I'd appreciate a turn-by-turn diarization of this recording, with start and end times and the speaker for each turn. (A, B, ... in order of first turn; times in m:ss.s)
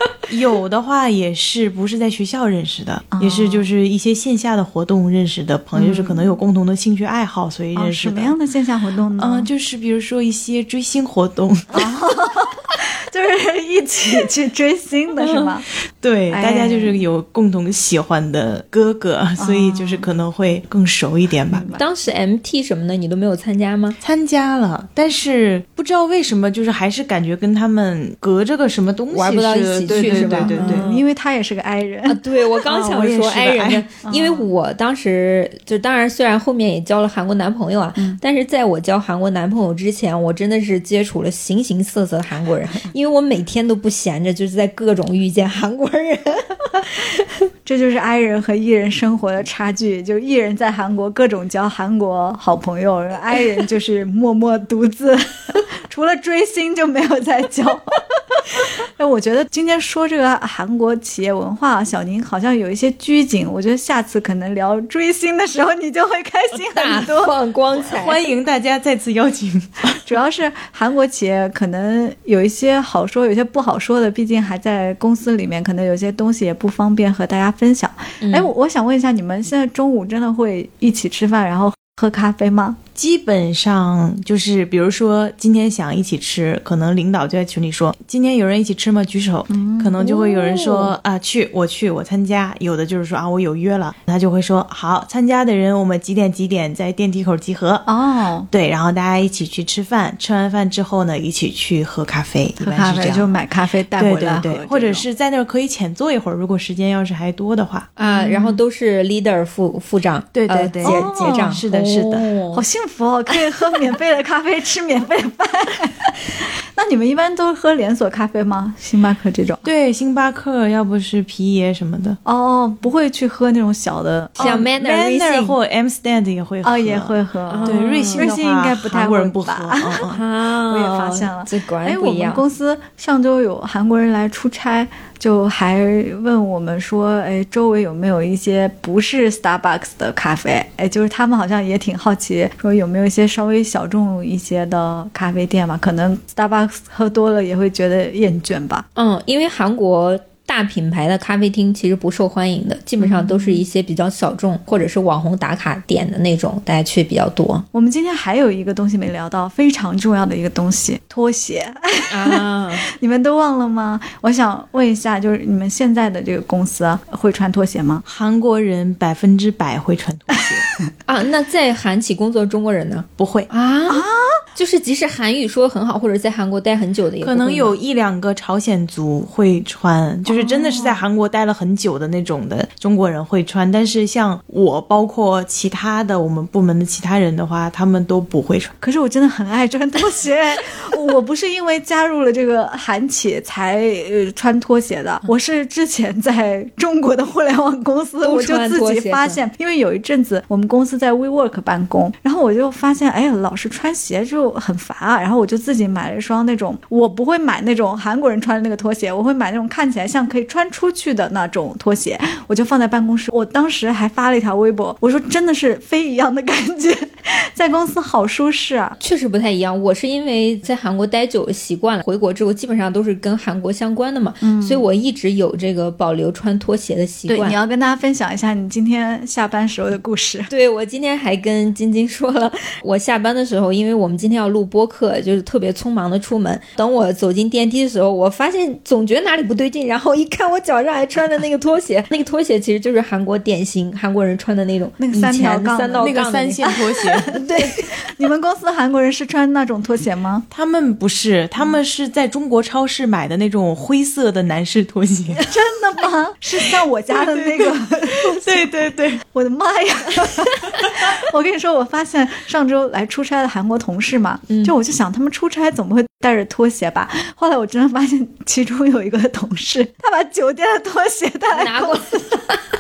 0:00.3-0:08.4 A
0:03.1-0:03.7 B
0:05.7-0:06.4 B
0:07.7-0:09.5 B
0:09.2-0:11.9 A
0:11.7-0:15.7 B
0:15.2-0:15.5 C
0:16.0-0:21.7 A
0:16.3-0:17.0 B
0:19.4-0:20.1 B
0:21.5-0:21.8 B
0:21.8-0:24.0 C
0:24.0-0:30.9 A
0:29.1-0:31.0 C
0:29.9-0:32.2 B
0:32.1-0:47.2 C
0:32.6-0:33.9 A
0:34.0-0:34.5 B
0:47.6-1:07.3 B
1:06.5-1:08.2 C
1:07.8-1:10.1 A
1:10.0-1:22.8 B
1:18.2-1:18.5 C
1:23.0-1:37.9 A
1:29.5-1:30.0 B
1:30.0-1:30.9 C
1:37.9-1:38.5 B
1:38.5-1:43.3 A
1:42.6-1:45.0 B
1:44.0-1:47.9 A
1:48.0-1:52.6 C
1:48.0-1:48.6 B
1:50.3-1:52.3 A
1:50.8-1:51.6 B
1:52.5-1:59.6 B
1:59.6-2:02.2 A
2:02.2-2:04.6 B
2:04.4-2:05.5 C
2:04.4-2:10.2 A
2:06.6-2:28.8 B
2:07.5-2:08.3 C
2:10.1-2:12.4 C
2:29.0-2:37.6 C
2:33.0-2:33.6 B
2:37.7-2:48.0 B
2:42.1-2:42.8 C
2:48.0-2:50.7 A
2:51.1-2:57.8 C
2:53.2-2:53.5 A
2:53.9-2:54.4 B
2:57.2-3:08.7 A
3:00.3-3:01.0 B
3:08.8-3:39.0 B
3:18.2-3:19.4 C
3:39.0-3:47.6 C
3:44.4-3:44.8 B
3:47.3-3:50.5 B
3:50.5-4:06.7 C
4:05.0-4:10.4 B
4:06.0-4:07.4 A
4:07.3-4:08.0 C
4:10.5-4:15.5 A
4:15.3-4:32.4 B
4:16.8-4:19.2 A
4:24.5-4:24.7 C
4:31.5-4:32.6 C